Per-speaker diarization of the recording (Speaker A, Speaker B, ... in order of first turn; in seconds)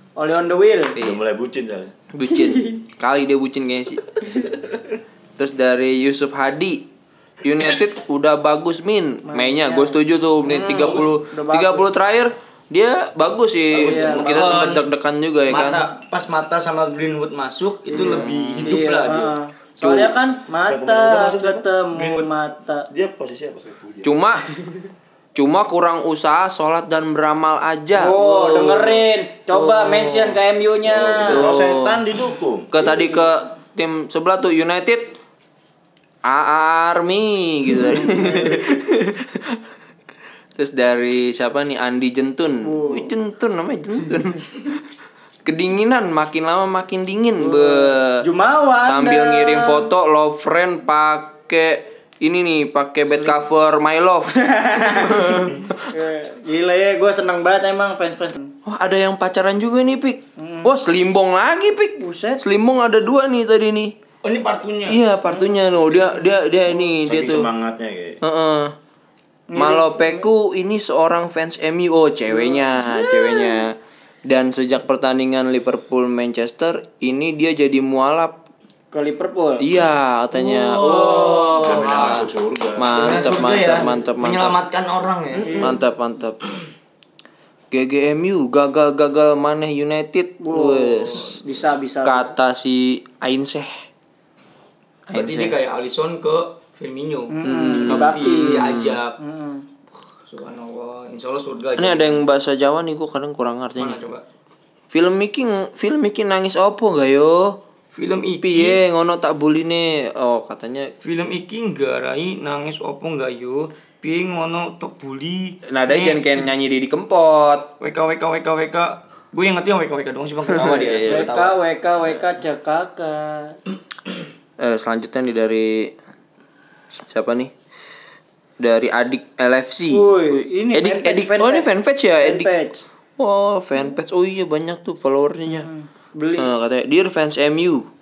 Speaker A: 0.1-1.0, 2.4-2.8, 9.3-11.9, 13.8-14.3, 17.9-22.9, 27.9-31.5, 38.0-38.6, 42.6-43.1, 47.4-49.9, 54.4-58.5, 60.4-60.7, 62.0-62.4, 65.3-65.5, 69.5-70.3, 72.3-73.5, 78.9-79.7, 80.4-81.6, 85.4-85.7, 90.4-92.3, 97.3-99.6, 121.0-123.6, 129.9-131.7, 132.2-132.8, 135.6-136.5
Speaker B: 0.9-1.2, 2.1-4.0, 5.4-6.8, 7.4-15.8, 17.9-18.8, 24.0-24.4, 25.3-30.4, 31.3-32.0, 32.7-35.2, 36.2-39.4, 40.6-44.7, 45.4-48.2, 48.8-55.7, 58.6-63.9, 64.8-67.5, 68.2-68.7, 69.5-78.4, 79.6-82.2, 82.8-84.6, 85.6-86.4, 87.7-91.3, 92.0-93.8, 95.1-95.6, 97.4-99.0, 101.8-104.0, 104.9-107.6, 108.4-110.9, 115.7-117.7, 120.5-121.3, 124.6-125.9, 127.1-127.5, 128.6-132.5, 133.2-135.7, 136.4-137.8
Speaker C: 1.0-1.9, 20.6-22.2, 22.9-24.1, 30.8-32.9, 66.7-68.2, 81.6-83.4
Speaker D: 10.6-11.0, 13.8-14.8, 15.5-20.1, 64.2-65.0, 80.8-82.3, 82.9-85.7, 95.1-99.2, 100.3-102.2, 103.8-104.2, 107.9-108.8, 111.0-116.2, 117.8-121.5